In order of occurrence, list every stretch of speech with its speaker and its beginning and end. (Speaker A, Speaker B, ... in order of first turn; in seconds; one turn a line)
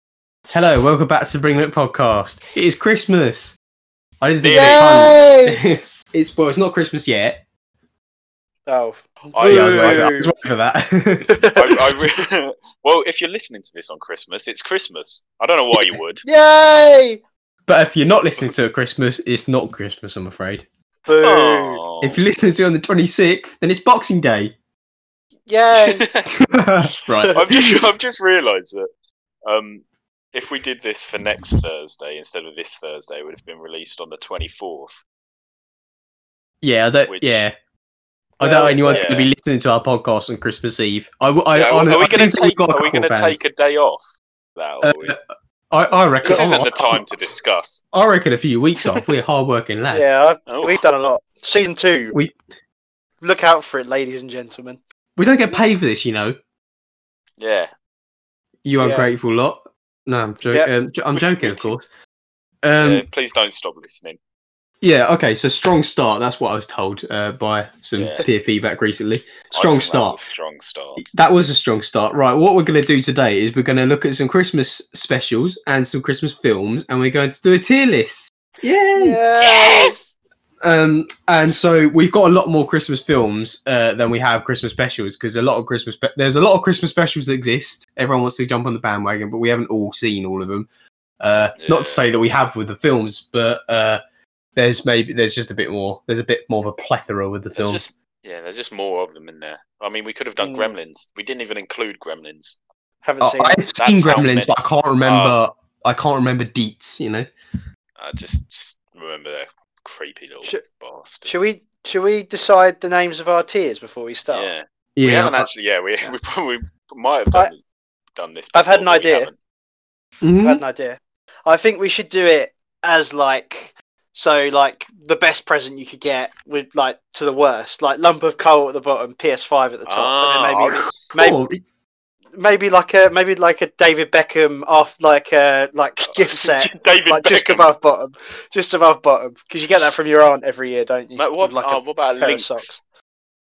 Speaker A: 0.5-3.6
Speaker A: 4.2-7.4
Speaker B: 4.5-5.6
Speaker B: 8.7-10.3
Speaker C: 9.3-10.2
Speaker A: 9.5-11.4
Speaker B: 11.3-12.0
Speaker C: 11.6-16.2
Speaker B: 16.2-17.2
Speaker A: 17.7-20.6
Speaker B: 21.1-21.8
Speaker C: 21.2-22.2
Speaker A: 22.0-24.5
Speaker B: 25.5-26.0
Speaker C: 25.7-26.5
Speaker A: 26.5-27.7
Speaker C: 27.3-28.9
Speaker C: 29.4-35.0
Speaker A: 36.6-37.5
Speaker C: 37.1-37.4
Speaker A: 38.4-43.4
Speaker B: 38.4-39.1
Speaker C: 38.6-39.3
Speaker C: 41.5-44.0
Speaker C: 44.5-45.2
Speaker A: 44.8-47.1
Speaker C: 46.2-47.8
Speaker B: 46.2-46.5
Speaker A: 47.9-50.1
Speaker B: 49.9-52.1
Speaker C: 50.5-50.9
Speaker B: 53.2-54.8
Speaker A: 55.1-56.4
Speaker C: 57.4-57.7
Speaker A: 58.6-61.9
Speaker B: 58.8-59.1
Speaker C: 61.1-61.7
Speaker A: 62.6-63.0
Speaker C: 62.7-64.2
Speaker A: 64.8-70.2
Speaker C: 68.0-68.2
Speaker C: 69.5-71.0
Speaker A: 71.0-79.2
Speaker B: 79.0-80.0
Speaker C: 79.4-80.2
Speaker A: 80.6-90.7
Speaker A: 91.2-94.0
Speaker C: 91.6-92.1
Speaker A: 94.6-97.8
Speaker C: 97.5-102.6
Speaker B: 100.4-100.8
Speaker B: 103.0-103.6
Speaker A: 103.2-107.3
Speaker C: 103.8-105.4
Speaker C: 108.0-111.3
Speaker B: 111.3-114.5
Speaker C: 114.3-117.6
Speaker A: 115.0-115.5
Speaker C: 118.2-119.3
Speaker B: 118.5-119.3
Speaker A: 120.2-120.6
Speaker B: 120.4-131.4
Speaker C: 129.9-131.1
Speaker A: 131.1-131.6
Speaker B: 132.3-142.8
Speaker C: 136.1-137.7
Speaker C: 141.2-142.8